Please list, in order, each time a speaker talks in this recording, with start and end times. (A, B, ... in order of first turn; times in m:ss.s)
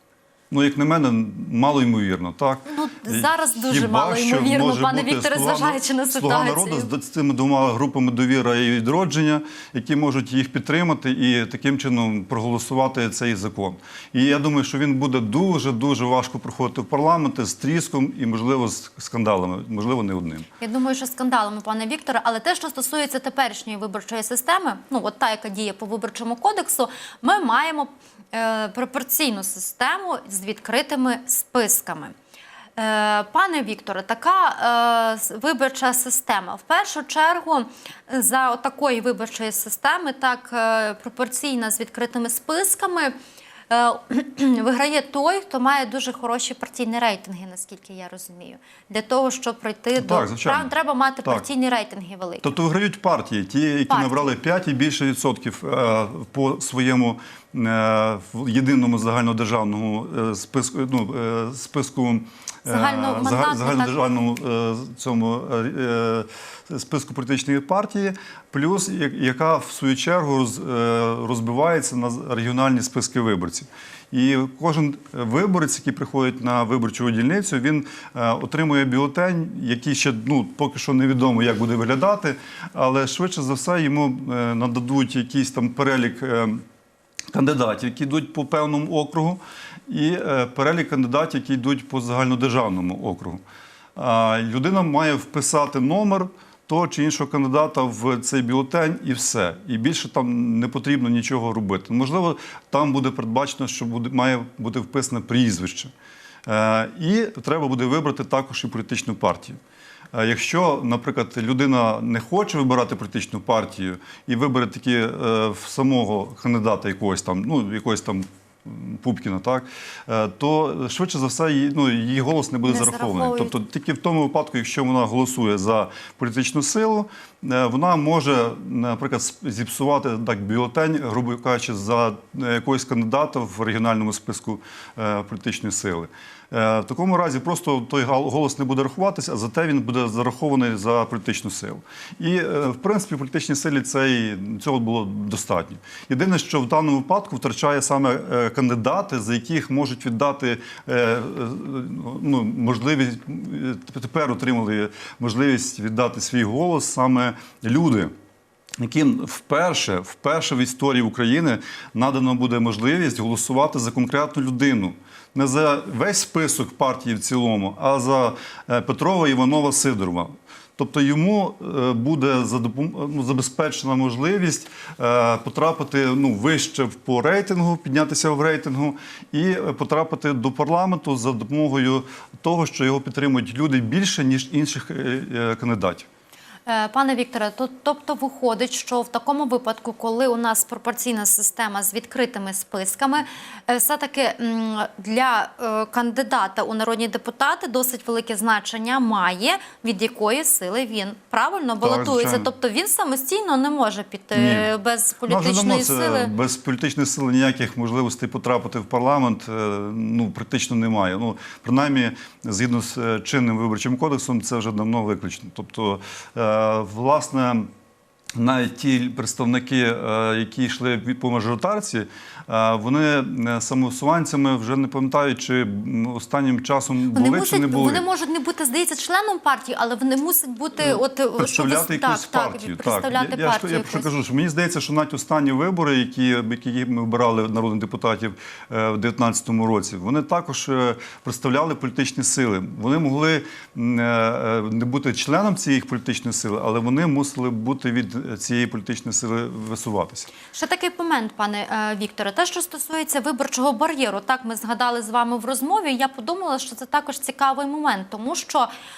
0:00.5-0:20.5 A
0:02.7-0:06.9 B
0:20.6-0:32.1 B
0:32.8-0:43.2 B
0:43.7-0:52.5 B
0:50.0-0:50.7 A
0:52.4-1:26.6 A
0:53.9-0:54.3 B
1:02.6-1:04.0 B
1:27.3-1:33.4 A
1:34.0-1:45.9 A
1:46.5-1:49.6 A
1:50.1-2:38.1 A
2:02.7-2:03.6 B
2:38.8-3:06.1 A
3:06.7-3:26.3 B
3:21.8-3:22.5 A
3:24.3-3:24.7 A
3:25.3-3:37.7 A
3:38.4-3:48.0 A
3:47.1-3:54.1 B
3:50.8-4:10.3 A
4:10.5-4:18.7 B